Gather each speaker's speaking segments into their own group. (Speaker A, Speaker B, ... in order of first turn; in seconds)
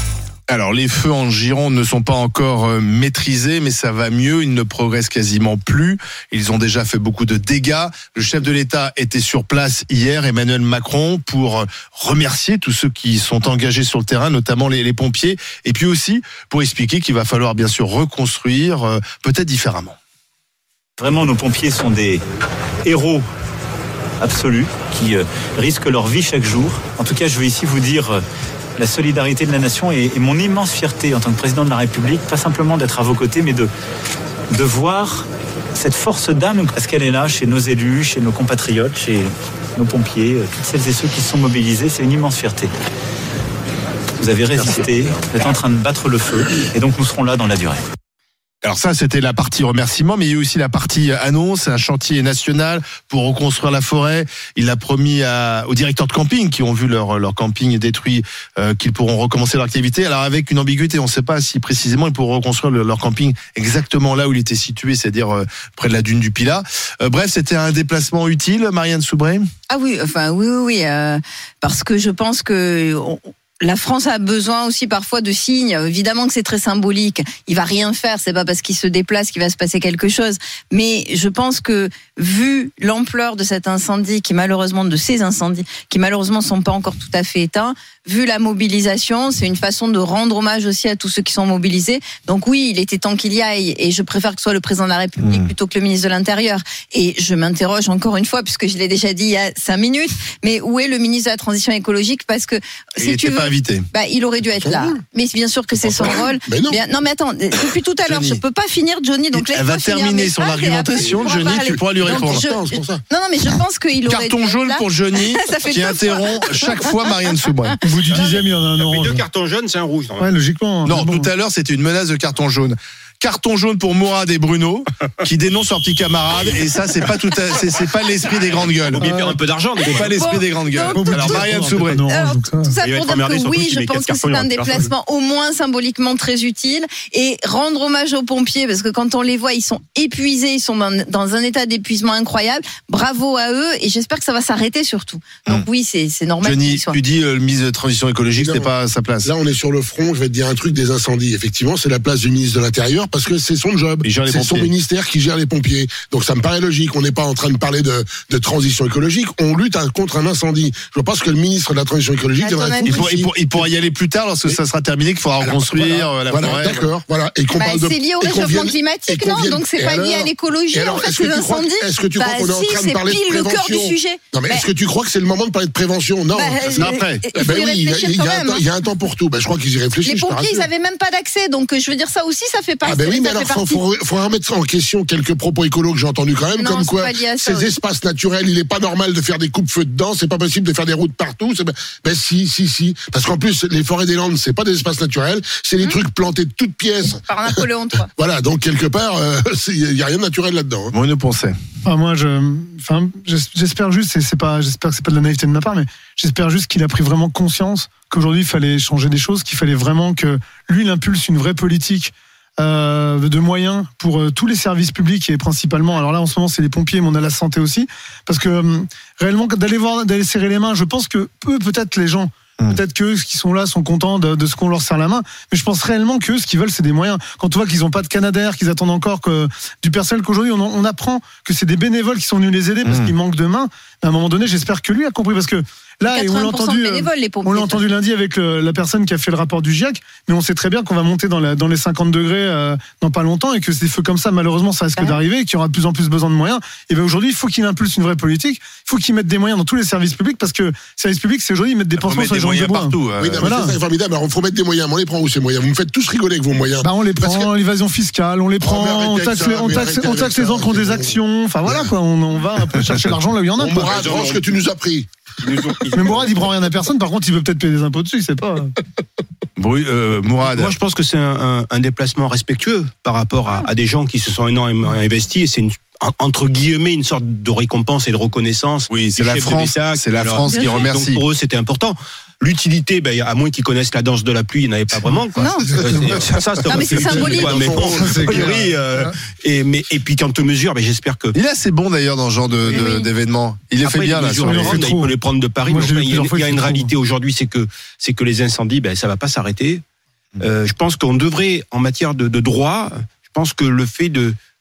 Speaker A: 0.5-19.9, 48.6-69.5, 95.2-95.5, 103.0-103.8, 108.0-108.4, 109.3-112.4, 114.0-117.8, 120.8-129.1, 129.8-132.0, 146.4-149.3, 154.0-154.7, 162.8-166.8, 176.7-177.2, 200.9-201.6, 232.8-233.1, 252.0-253.5, 269.6-270.7, 278.9-281.2, 286.8-288.4, 291.3-294.8
Speaker B: 21.0-22.2, 22.9-23.2, 24.2-28.2, 28.8-33.7, 34.5-42.7, 44.2-47.8
Speaker C: 69.7-117.8, 129.9-131.4, 132.1-147.0, 162.4-163.1, 167.5-174.7, 176.3-178.6, 180.0-183.8, 186.6-187.7, 197.2-198.1, 236.1-237.8, 280.4-280.8, 285.4-285.8, 286.7-287.7, 292.7-293.1
Speaker D: 104.6-105.0, 105.8-106.8, 111.0-113.0, 148.4-148.7, 149.2-163.6, 165.4-180.7, 182.8-197.2, 198.2-200.9, 253.2-257.5, 258.6-261.9, 263.6-265.1, 287.5-287.8
Speaker E: 117.8-119.2, 120.2-121.3, 129.0-129.4, 130.9-132.8, 201.8-253.8, 256.8-264.2, 265.9-268.7, 285.7-286.2, 286.9-289.1, 294.4-295.1, 295.6-296.9
Speaker F: 118.1-120.3, 128.9-130.1, 132.8-134.9, 263.9-264.4, 265.4-266.5, 270.4-291.3, 292.6-292.9, 293.8-299.8, 300.4-304.4